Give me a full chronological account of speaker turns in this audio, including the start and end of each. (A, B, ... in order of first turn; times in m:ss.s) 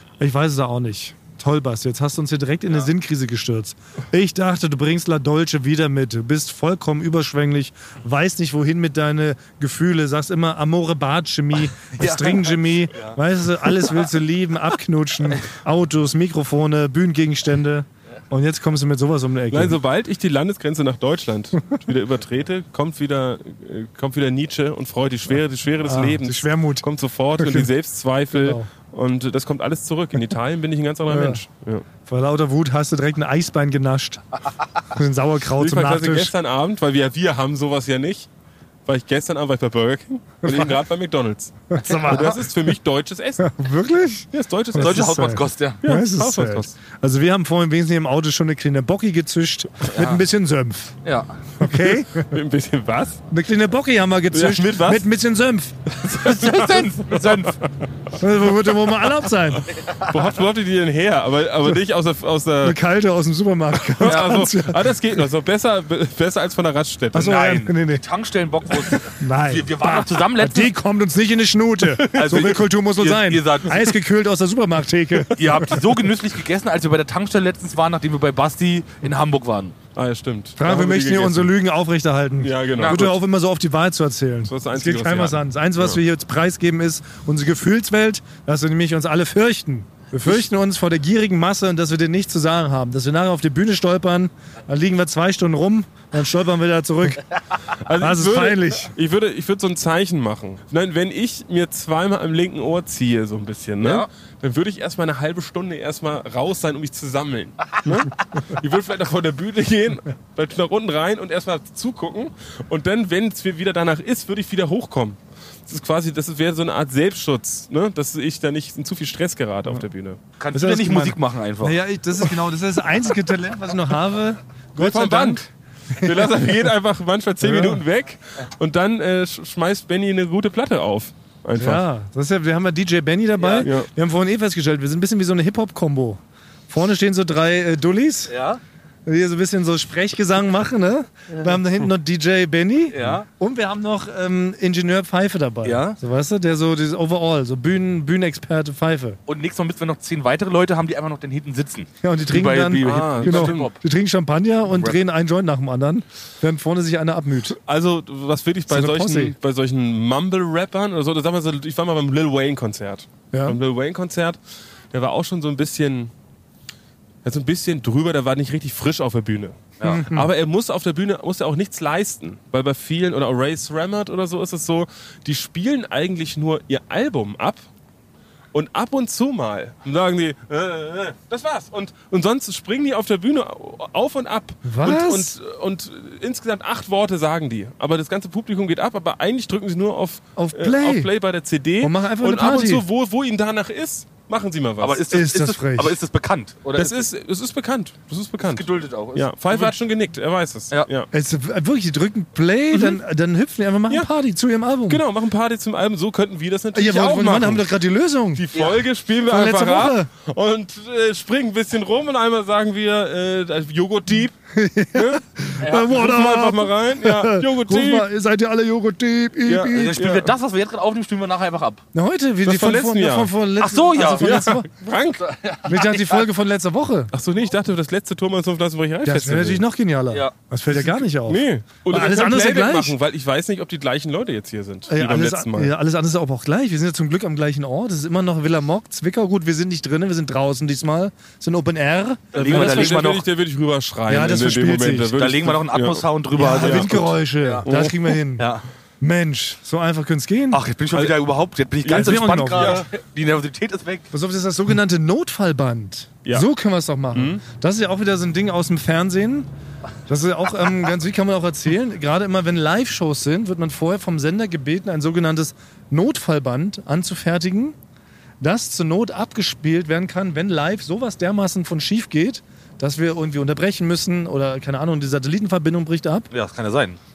0:00.2-0:19.8 A
0:11.9-0:13.2 B
0:19.5-0:31.8 C
0:25.8-0:26.8 A
0:27.4-0:27.7 A
0:28.3-0:28.7 A
0:31.1-0:31.4 A
0:32.0-0:36.3 A
0:35.6-0:38.3 C
0:38.8-0:43.5 C
0:40.4-0:40.8 A
0:41.7-0:42.5 A
0:43.4-0:51.0 A
0:44.3-0:45.2 C
0:44.8-0:45.8 B
0:45.8-0:46.7 C
0:49.9-0:50.2 B
0:51.0-0:51.4 B
0:51.6-0:52.4 A
0:51.6-0:53.2 C
0:53.3-0:55.8 A
0:54.3-0:55.0 C
0:56.0-0:57.6 C
0:56.0-0:57.6 B
0:58.1-0:59.7 A
0:59.8-1:00.1 B
0:59.9-1:02.8 C
1:02.6-1:04.9 A
1:03.9-1:07.4 C
1:07.1-1:08.0 A
1:07.2-1:10.7 B
1:09.0-1:16.0 A
1:12.0-1:12.4 C
1:12.1-1:13.9 B
1:15.3-1:19.7 B
1:19.9-1:21.5 C
1:20.6-1:37.2 A
1:22.4-1:23.1 C
1:22.8-1:23.1 B
1:24.5-1:26.0 C
1:37.8-2:00.2 C
1:38.0-1:38.9 A
1:43.8-1:44.1 B
2:00.4-2:01.8 B
2:00.5-2:06.7 A
2:04.8-2:05.5 C
2:06.0-2:11.8 C
2:07.4-2:07.8 A
2:11.6-2:18.3 A
2:13.4-2:13.7 B
2:13.6-2:13.9 C
2:18.3-2:18.6 B
2:19.0-2:29.2 A
2:22.9-2:23.3 B
2:25.6-2:26.0 B
2:29.3-2:33.8 B
2:32.0-2:37.6 A
2:32.8-2:33.7 C
2:37.6-2:44.4 C
2:38.7-2:39.3 A
2:43.3-2:43.6 A
2:44.9-2:46.1 C
2:47.2-2:57.6 C
2:49.8-2:50.3 A
2:58.5-3:15.0 C
3:04.6-3:05.4 A
3:10.4-3:11.1 A
3:11.8-3:12.8 A
3:14.8-3:17.0 B
3:15.1-3:16.0 A
3:16.8-3:21.1 C
3:18.4-3:19.7 B
3:21.1-3:25.0 A
3:22.7-3:23.0 C
3:24.9-3:27.6 C
3:26.7-3:28.4 A
3:28.3-3:34.3 C
3:28.5-3:28.8 B
3:29.2-3:30.1 A
3:34.5-3:40.0 A
3:34.9-3:38.1 C
3:35.6-3:36.0 B
3:39.4-3:40.3 C
3:39.7-3:41.8 B
3:41.9-3:44.7 A
3:42.4-3:43.3 C
3:43.6-3:44.5 B
3:44.2-3:45.2 C
3:45.2-3:46.2 B
3:45.6-3:47.1 A
3:47.1-3:49.6 C
3:49.0-3:53.0 A
3:50.7-3:55.7 C
3:54.9-4:03.1 A
4:02.3-4:03.2 B
4:02.3-4:07.1 C
4:04.1-4:05.2 A
4:05.2-4:07.7 B
4:06.3-4:10.6 A
4:07.6-4:08.2 C
4:08.4-4:08.6 B
4:10.5-4:14.1 B
4:11.8-4:12.8 C
4:11.9-4:12.8 A
4:14.1-4:19.5 A
4:17.1-4:17.4 C
4:20.1-4:27.8 A
4:28.4-4:36.3 A
4:36.3-4:37.0 B